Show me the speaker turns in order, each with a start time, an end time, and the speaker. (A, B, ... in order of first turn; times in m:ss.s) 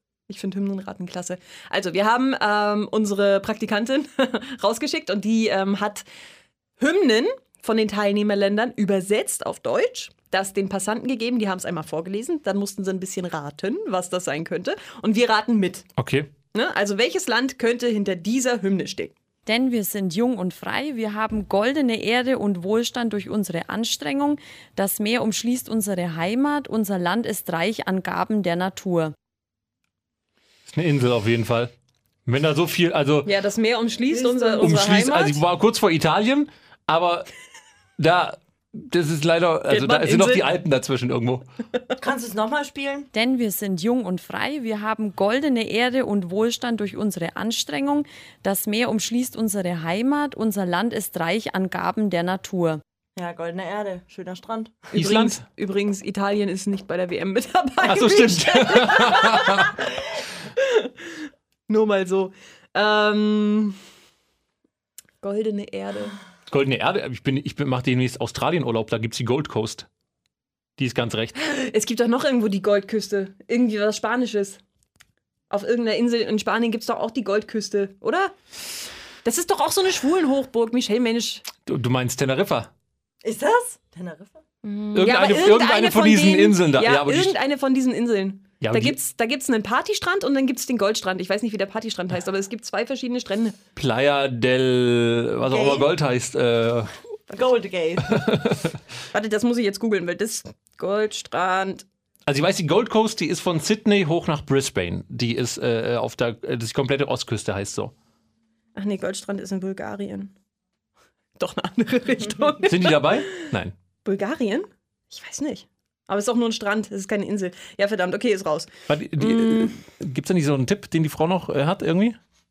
0:00.3-0:06.0 A
0:06.8-0:15.9 A
0:16.0-0:16.3 B
0:16.5-0:19.1 A
0:19.5-0:29.1 C
0:30.7-0:31.7 B
0:32.2-0:33.3 B
0:33.2-0:35.4 A
0:34.1-0:34.7 D
0:34.6-0:37.3 B
0:38.0-0:41.4 B
0:39.7-0:40.5 A
0:42.0-0:43.1 D
0:43.1-0:52.8 C
0:53.2-0:54.8 D
0:54.9-0:59.7 A
0:54.9-0:55.4 B
0:57.8-0:59.7 B
1:00.6-1:00.9 A
1:01.7-1:03.8 A
1:05.2-1:06.2 A
1:06.5-1:09.9 B
1:10.8-1:11.4 B
1:11.4-1:14.6 A
1:15.5-1:18.3 A
1:19.2-1:21.4 A
1:21.6-1:22.7 B
1:23.2-1:24.4 D
1:24.6-1:33.6 A
1:24.9-1:27.4 B
1:28.6-1:29.0 B
1:33.8-1:36.9 B
1:35.4-1:35.9 D
1:37.3-1:38.2 D
1:38.1-1:38.7 B
1:39.1-1:41.9 A
1:42.2-1:47.9 B
1:48.7-1:50.3 A
1:51.4-1:53.5 A
1:52.6-1:53.7 B
1:54.0-1:59.8 A
1:58.9-2:02.2 B